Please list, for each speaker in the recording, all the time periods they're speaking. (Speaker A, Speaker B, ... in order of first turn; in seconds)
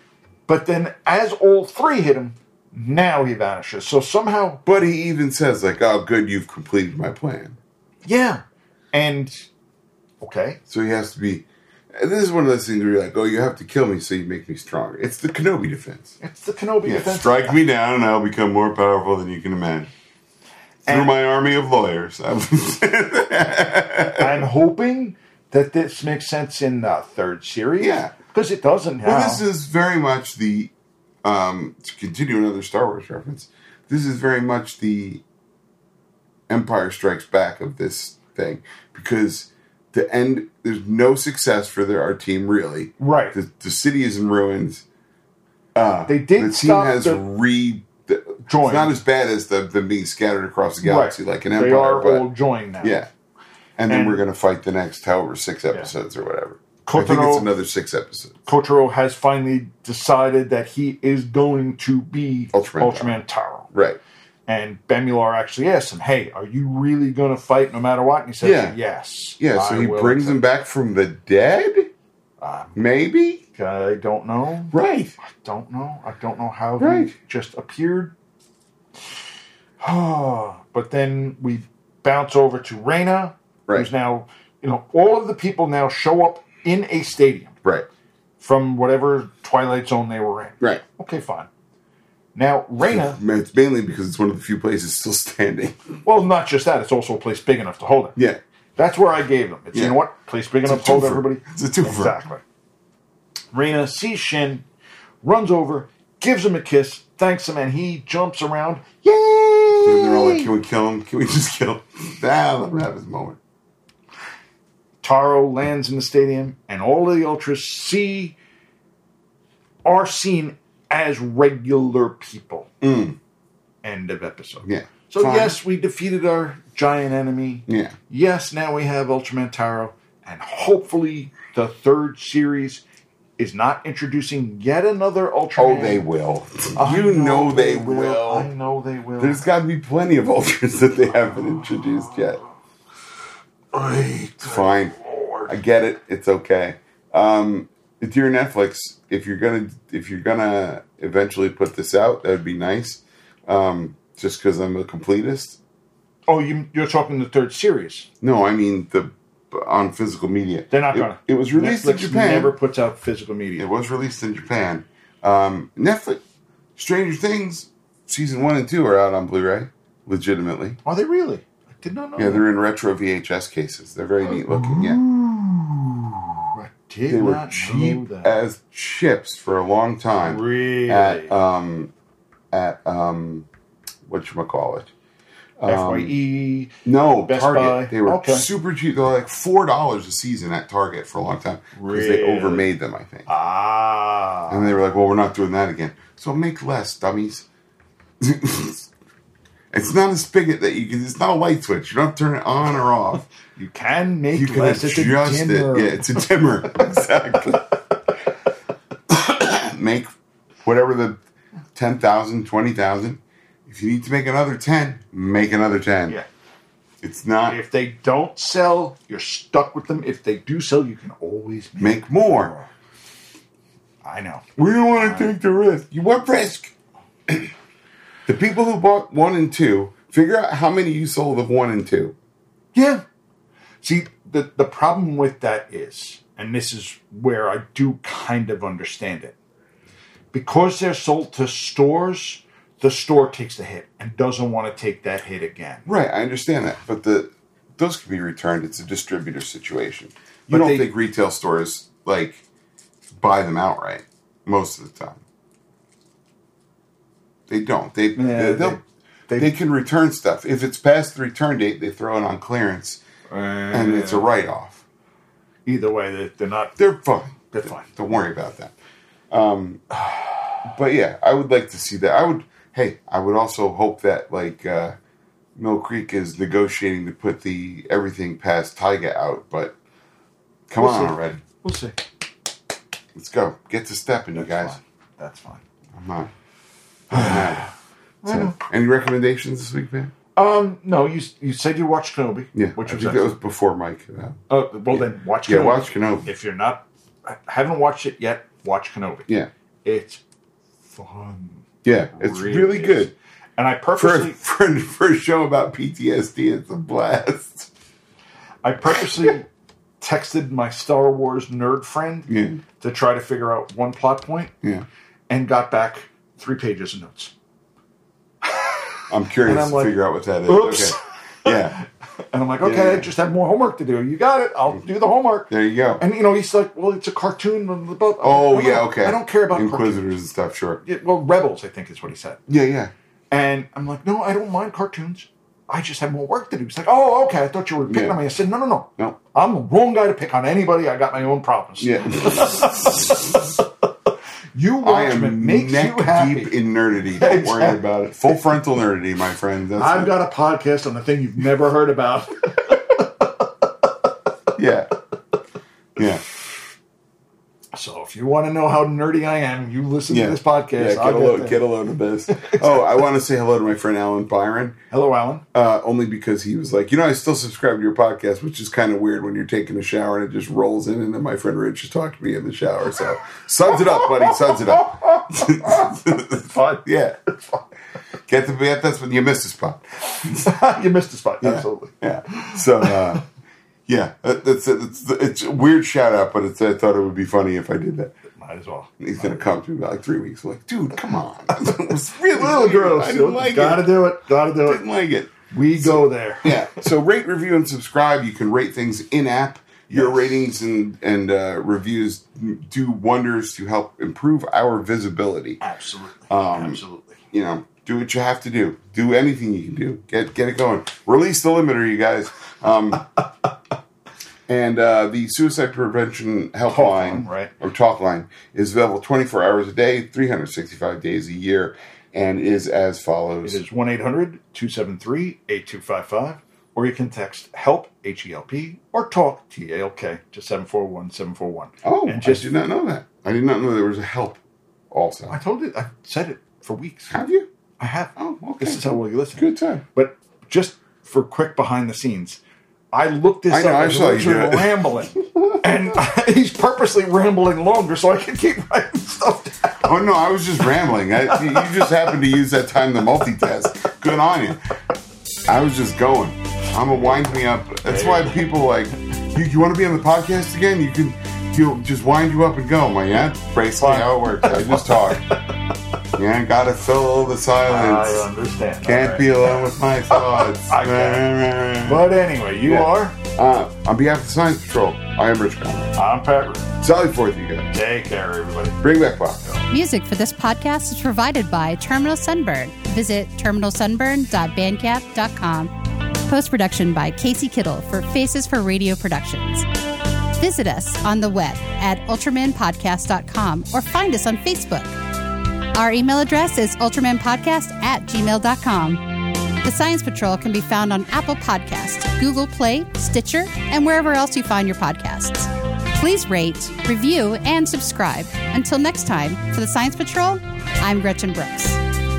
Speaker A: 0.5-4.6, 8.0-9.5, 10.2-10.6, 16.2-17.6, 20.9-21.1, 24.1-29.4, 43.0-43.4, 46.1-47.2, 48.5-48.9, 50.8-53.0, 53.9-54.2, 56.8-57.5, 58.5-63.7, 64.5-70.4, 72.4-72.8, 73.5-78.1, 79.8-87.5, 88.4-91.5, 92.3-93.2, 96.0-98.2, 98.8-102.4, 103.5-104.6, 105.2-110.5, 115.0-118.3, 119.8-122.7, 123.8-132.8, 133.4-136.0, 136.7-139.4, 143.7-145.5, 156.3-158.1, 160.7-163.7, 170.8-172.4, 174.2-178.3, 180.2-181.3, 185.7-186.7, 187.2-188.4, 191.7-192.7, 193.3-194.8, 203.6-206.1, 217.4-222.7, 224.0-225.3, 232.7-233.0, 233.8-239.3, 240.3-245.9, 250.5-250.9, 258.1-259.5, 263.3-264.3, 265.6-266.7, 267.5-267.9, 270.0-270.6, 280.8-281.9, 284.3-285.6, 287.1-287.7, 288.2-288.6, 290.4-293.4, 294.5-299.3, 299.8-300.2, 300.8-304.4, 308.6-309.5, 310.0-314.5, 315.3-317.3, 318.4-319.9, 320.4-330.1, 330.8-332.4, 333.3-343.6, 344.5-346.5, 347.2-348.4, 349.7-353.4, 357.7-361.6, 362.3-362.9, 364.9-365.4, 373.7-377.6, 380.1-383.2, 388.3-389.5, 392.1-394.8, 395.5-396.8, 399.9-400.5, 405.6-407.2, 416.7-417.5, 423.4-432.5, 435.3-437.1, 437.8-442.4, 442.9-449.9, 451.3-451.9, 456.9-458.4, 463.8-465.6, 467.6-471.2, 471.8-473.2, 475.9-476.7, 477.7-478.8
Speaker B: 4.7-7.6, 10.7-16.2, 16.8-19.9, 20.9-24.5, 27.8-28.1, 29.0-30.7, 31.2-35.2, 36.5-44.8, 45.7-52.3, 52.8-53.1, 53.8-58.5, 62.5-64.0, 68.4-68.8, 69.4-71.9, 72.7-73.4, 74.7-75.1, 76.8-77.1, 92.8-95.8, 99.7-100.0, 100.7-102.2, 109.8-113.4, 122.8-123.2, 124.6-125.6, 127.7-127.9, 135.6-138.5, 139.2-142.4, 144.4-144.9, 145.5-155.6, 158.2-162.6, 163.6-166.2, 166.8-170.8, 172.2-175.0, 177.1-181.9, 182.5-183.5, 184.1-184.9, 185.6-186.1, 186.8-193.3, 194.5-197.4, 198.2-198.9, 199.7-203.3, 204.3-207.7, 209.1-210.1, 210.6-211.2, 211.7-216.2, 217.0-217.6, 221.8-222.5, 224.6-226.7, 228.3-232.1, 245.8-252.4, 253.2-255.2, 257.5-258.8, 259.3-263.0, 263.7-264.8, 266.8-268.7, 269.3-269.8, 270.6-274.9, 275.6-279.8, 280.7-281.4, 283.1-284.8, 285.9-286.3, 287.1-287.7, 288.2-290.1, 292.5-294.4, 294.9-296.3, 301.8-303.1, 303.9-307.7, 312.3-312.6, 319.1-321.8, 322.6-323.1, 325.5-326.0, 328.2-330.8, 332.5-332.9, 337.9-338.2, 341.8-343.2, 344.8-350.1, 354.6-354.9, 356.0-356.2, 360.1-364.8, 365.5-377.2, 378.3-380.6, 381.4-383.2, 383.9-388.1, 389.0-394.0, 394.6-405.6, 406.3-413.1, 414.5-423.6, 431.8-435.4, 437.1-437.5, 438.1-439.8, 443.5-445.6, 449.8-454.6, 455.5-465.2, 466.1-468.2, 468.8-472.1, 472.6-475.9, 476.8-477.7, 478.8-479.4
Speaker C: 479.7-485.7, 486.2-489.6, 490.4-495.0, 495.7-511.8